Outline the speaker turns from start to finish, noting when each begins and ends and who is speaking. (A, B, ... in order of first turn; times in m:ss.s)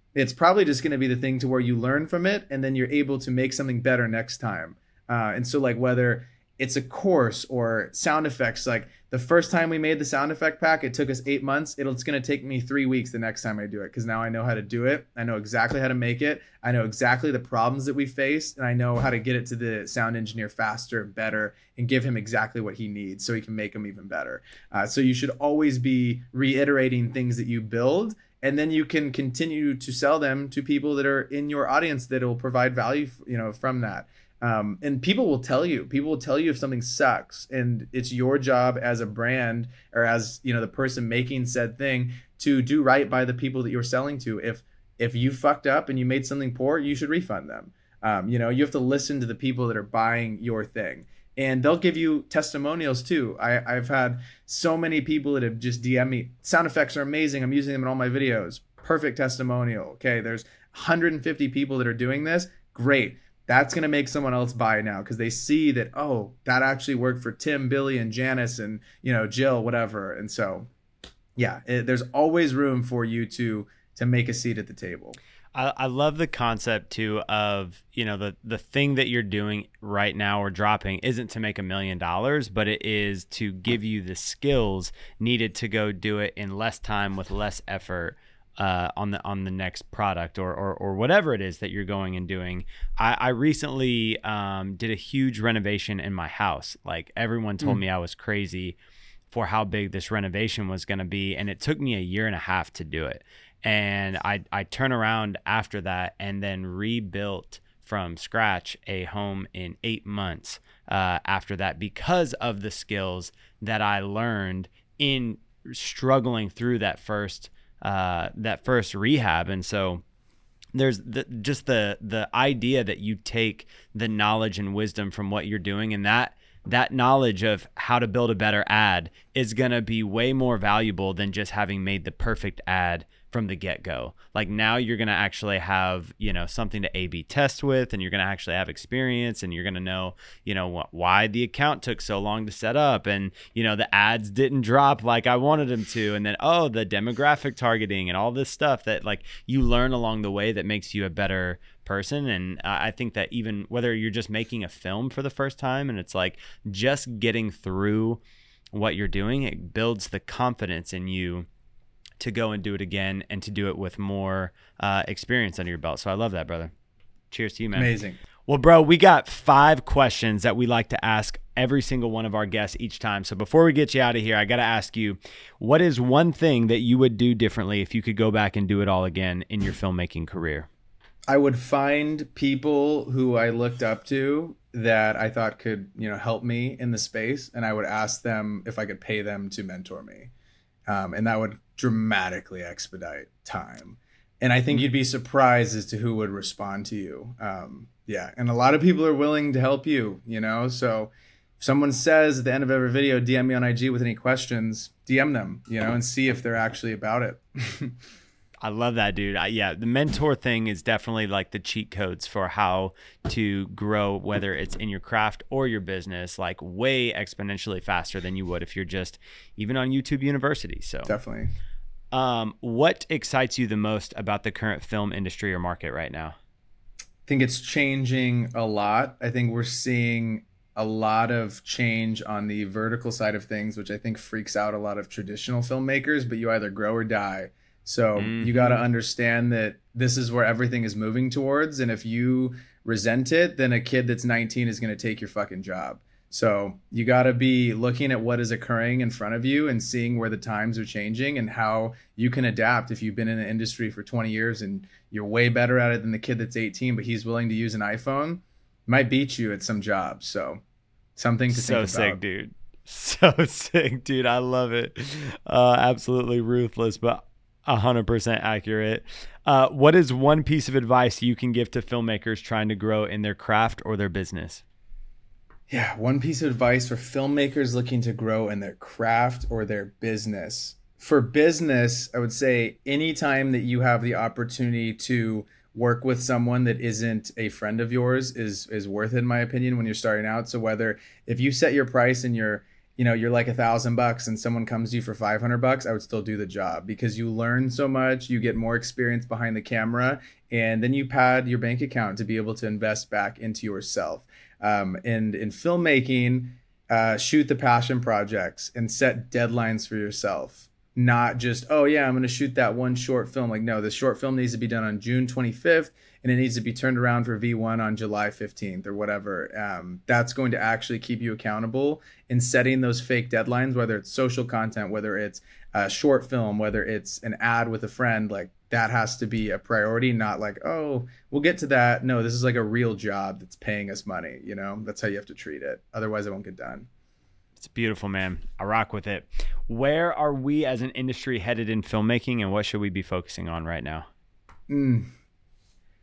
0:00.1-1:10.7 A
1:11.4-1:15.2 A
1:15.5-1:38.8 B
1:39.3-2:00.0 B
2:00.7-2:38.2 B
2:38.7-2:41.5 B
2:42.2-2:46.7 B
2:47.3-2:47.9 B
2:47.8-2:48.2 A
2:48.5-3:00.7 B
3:01.3-3:10.3 A
3:10.9-3:28.0 A
3:28.6-3:41.1 B
3:41.1-3:41.5 A
3:42.1-3:46.4 B
3:47.3-4:20.6 A
3:58.2-3:58.8 B
4:21.2-4:22.2 A
4:21.5-4:34.6 B
4:35.7-5:36.9 A
5:37.6-5:44.1 B
5:44.7-5:45.1 A